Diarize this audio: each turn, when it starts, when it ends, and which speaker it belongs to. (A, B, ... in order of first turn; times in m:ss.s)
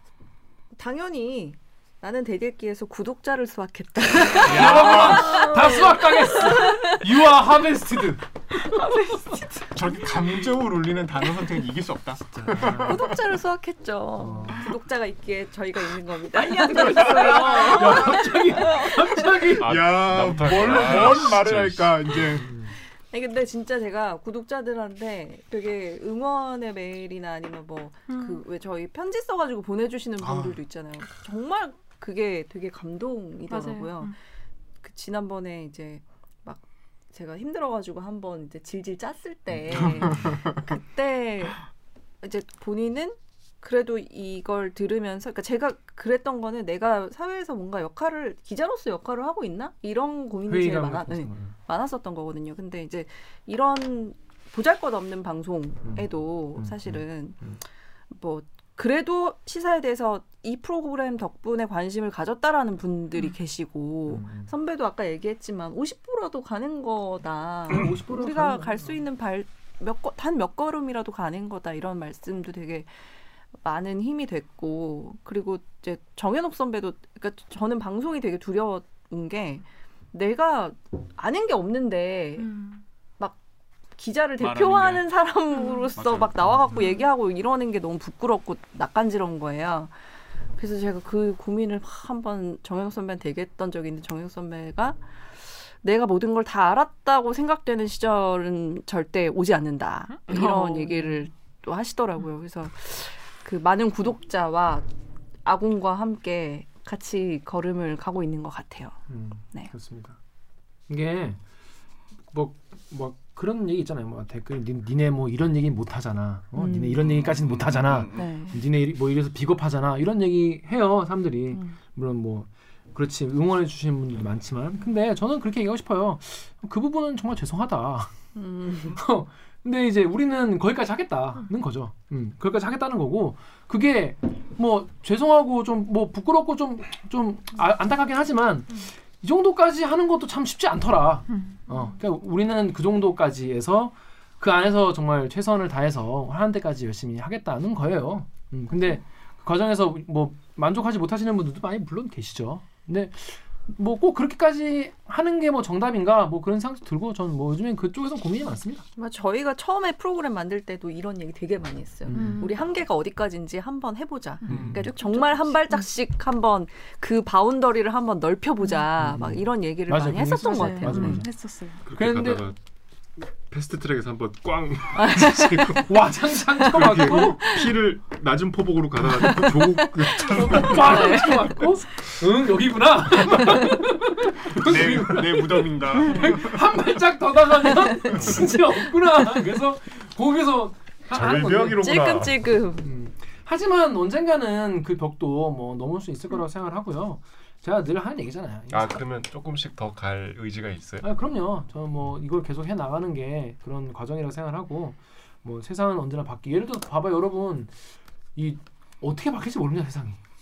0:00.7-0:07.0 A
0:04.4-0:05.4 B
0:04.4-0:08.2 C
0:08.7-0:09.2 A
0:09.7-0:13.2 B
0:12.3-0:13.0 C
0:12.8-0:19.5 A
0:14.2-0:14.7 C
0:16.4-0:19.7 C
0:19.6-0:22.0 D
0:19.6-0:22.5 B
0:20.4-0:21.3 C
0:22.4-0:22.8 C
0:23.1-0:34.2 A
0:28.1-0:28.4 E
0:30.2-0:30.6 B
0:33.5-0:34.1 E
0:34.8-0:41.6 A
0:39.7-0:40.5 B
0:42.2-0:57.5 A
0:50.5-0:51.6 C
0:56.6-0:57.6 C
0:58.1-1:12.9 A
1:04.1-1:04.5 C
1:07.7-1:09.0 C
1:13.6-1:22.6 A
1:22.4-1:22.8 E
1:24.0-1:29.9 A
1:24.4-1:25.0 B
1:25.6-1:25.8 E
1:26.0-1:26.4 B
1:30.6-1:35.0 A
1:35.8-1:44.9 A
1:40.3-1:40.9 E
1:45.4-1:49.0 A
1:49.1-1:50.2 C
1:50.9-1:51.4 C
1:52.3-2:08.1 C
1:56.6-1:57.0 A
1:57.0-1:58.3 B
1:58.1-1:58.6 A
2:08.4-2:09.0 A
2:08.9-2:38.8 C
2:39.0-2:51.2 A
2:42.1-2:42.5 C
2:42.1-2:42.6 E
2:44.5-2:44.9 C
2:44.9-2:45.8 E
2:49.0-2:51.3 C
2:50.4-2:51.8 E
2:51.9-2:52.6 D
2:51.9-2:52.5 C
2:53.5-3:01.2 D
2:55.8-2:57.5 C
3:00.2-3:12.0 C
3:04.6-3:06.7 B
3:08.2-3:08.5 D
3:11.1-3:12.6 D
3:11.8-3:12.8 A
3:12.8-3:19.0 C
3:18.7-3:21.1 D
3:21.0-3:27.7 C
3:28.4-3:30.2 C